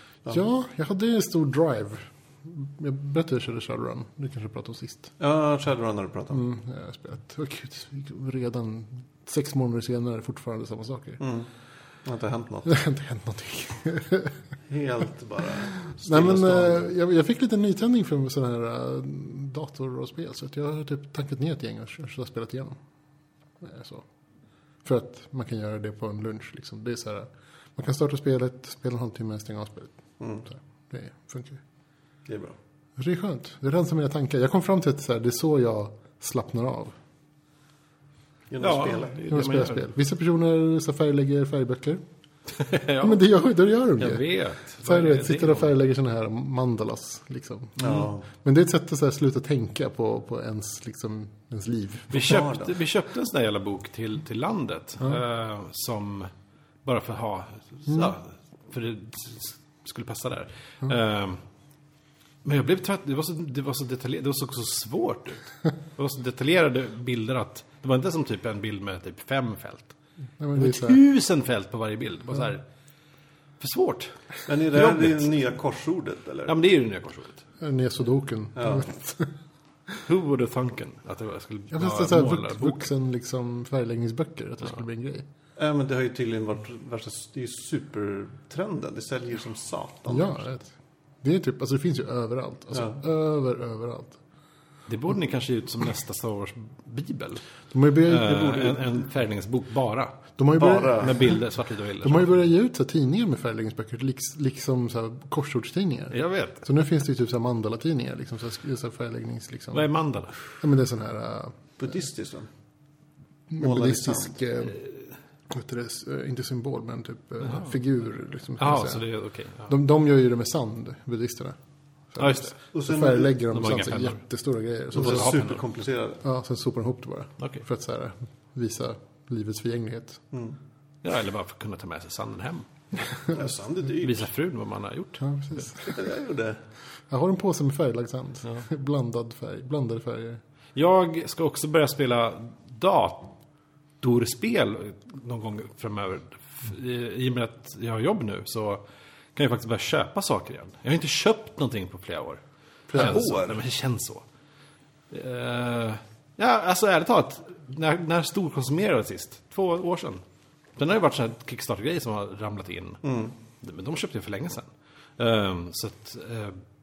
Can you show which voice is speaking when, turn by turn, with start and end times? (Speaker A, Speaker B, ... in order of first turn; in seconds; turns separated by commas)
Speaker A: 0.3-5.1, Speaker B: 5.2-6.4, Speaker A: 6.3-11.2, Speaker B: 11.2-11.5, Speaker B: 12.0-12.7, Speaker A: 12.7-14.3, Speaker B: 14.7-16.8, Speaker A: 15.8-22.8, Speaker A: 23.6-24.0, Speaker A: 24.8-31.6, Speaker B: 32.3-32.5, Speaker A: 33.0-37.0, Speaker B: 38.5-39.2, Speaker C: 38.6-39.9, Speaker A: 39.3-42.0, Speaker C: 42.5-43.2, Speaker A: 43.0-44.3, Speaker C: 44.0-45.7, Speaker A: 44.8-52.3, Speaker B: 47.8-48.2, Speaker C: 52.1-56.3, Speaker B: 52.2-52.7, Speaker C: 56.8-61.4, Speaker C: 62.4-69.9, Speaker A: 70.4-71.0, Speaker C: 70.5-72.6, Speaker C: 73.6-75.3, Speaker B: 74.5-76.6, Speaker C: 76.5-77.4, Speaker A: 77.6-79.3, Speaker B: 78.5-78.8, Speaker C: 80.0-82.9, Speaker A: 81.7-85.2, Speaker B: 85.5-90.4, Speaker A: 90.1-94.2, Speaker B: 92.7-93.0, Speaker C: 94.9-97.4, Speaker A: 97.7-98.8, Speaker C: 98.0-100.3, Speaker A: 100.4-101.4, Speaker B: 100.5-101.3, Speaker C: 100.9-102.3, Speaker A: 102.0-109.9, Speaker C: 106.1-106.6, Speaker C: 109.7-110.4, Speaker A: 110.6-111.9, Speaker B: 111.8-112.5, Speaker A: 113.5-114.8, Speaker B: 113.6-114.3, Speaker A: 115.5-119.0, Speaker C: 117.4-117.8, Speaker C: 118.6-119.7, Speaker A: 119.7-121.6, Speaker A: 122.1-125.3, Speaker C: 122.2-122.6, Speaker B: 122.7-123.4, Speaker C: 123.5-124.2, Speaker C: 124.9-125.6, Speaker B: 125.0-126.2, Speaker A: 126.2-130.2, Speaker B: 130.3-130.6, Speaker C: 131.0-133.2, Speaker B: 133.3-134.3, Speaker C: 134.0-135.7, Speaker A: 135.2-136.0, Speaker B: 135.8-136.6, Speaker A: 137.1-140.4, Speaker C: 140.7-143.3, Speaker C: 144.0-148.8, Speaker C: 149.3-152.4, Speaker B: 152.9-153.6, Speaker C: 152.9-154.2, Speaker C: 155.1-160.2, Speaker C: 160.8-166.6, Speaker B: 163.0-163.3